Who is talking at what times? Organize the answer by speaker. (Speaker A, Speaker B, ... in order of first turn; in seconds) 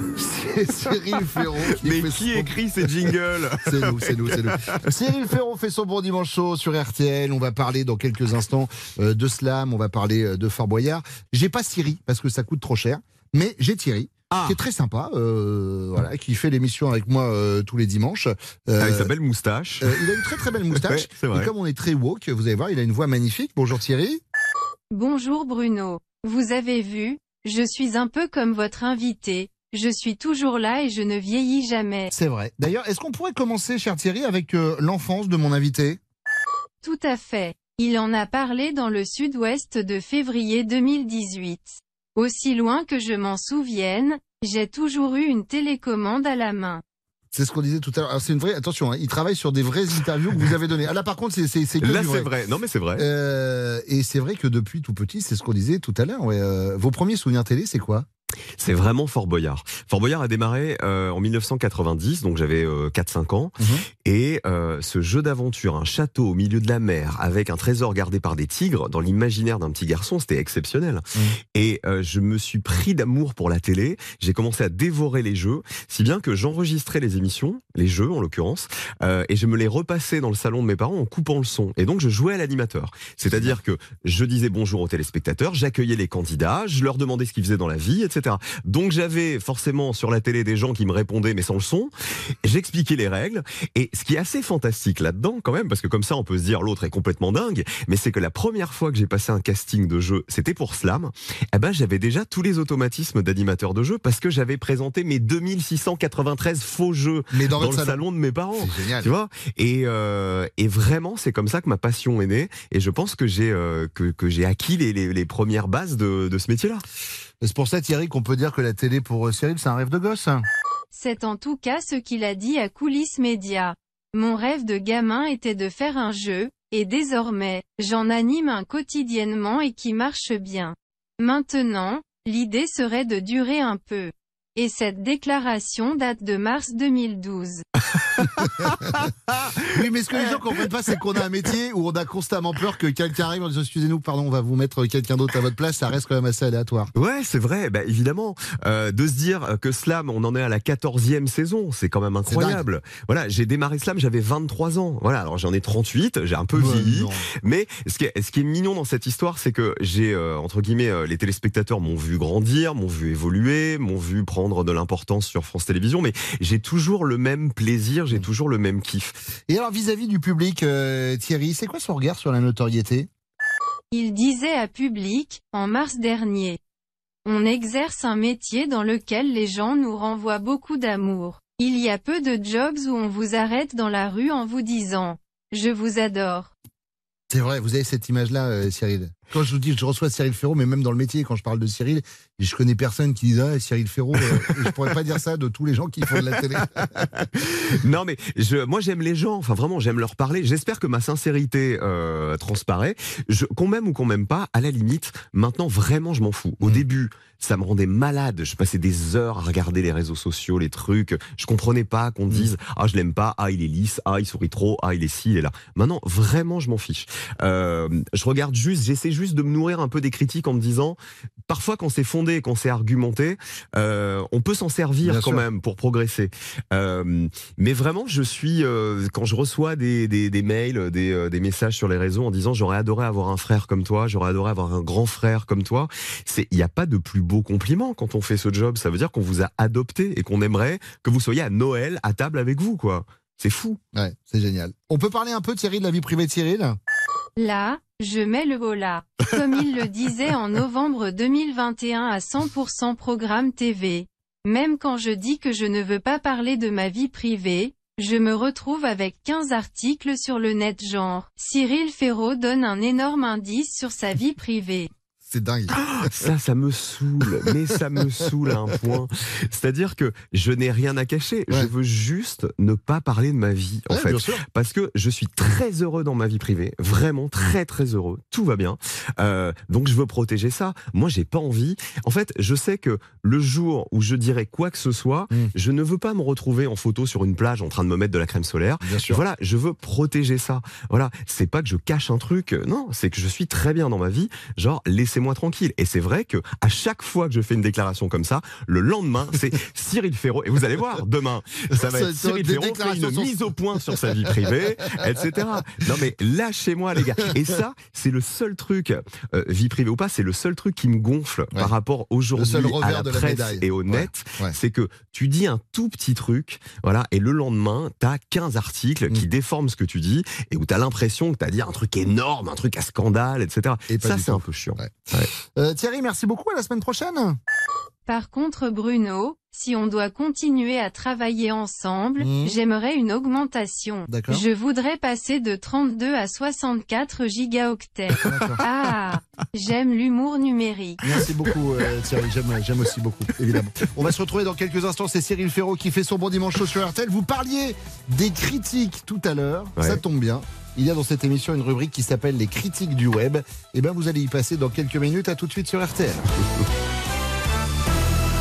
Speaker A: 0.1-2.6, 3.6-19.1, 19.8-24.2, 32.1-36.0, 47.3-52.3, 53.0-58.1, 63.6-63.8, 83.3-83.6, 107.3-108.0, 108.6-109.1, 117.4-120.4, 139.7-146.9, 152.3-152.6, 156.5-157.3, 169.5-173.1, 187.3-197.1, 225.0-225.4, 243.9-246.8, 265.2-266.3, 273.9-274.4, 288.8-289.2, 301.7-304.6, 312.3-314.5, 323.9-327.4, 332.2-332.6, 334.1-334.4, 338.2-338.6, 341.0-356.2
Speaker B: 1.7-4.8, 14.3-14.6, 18.8-20.1, 20.7-21.5, 51.8-53.0, 58.6-91.9, 92.4-116.8, 138.0-139.7, 146.9-169.2, 196.5-221.0, 221.5-243.8, 265.7-325.3
Speaker C: 24.9-32.1, 36.8-46.8, 120.9-137.6, 173.9-176.6, 177.2-186.5, 247.4-264.9, 328.1-341.0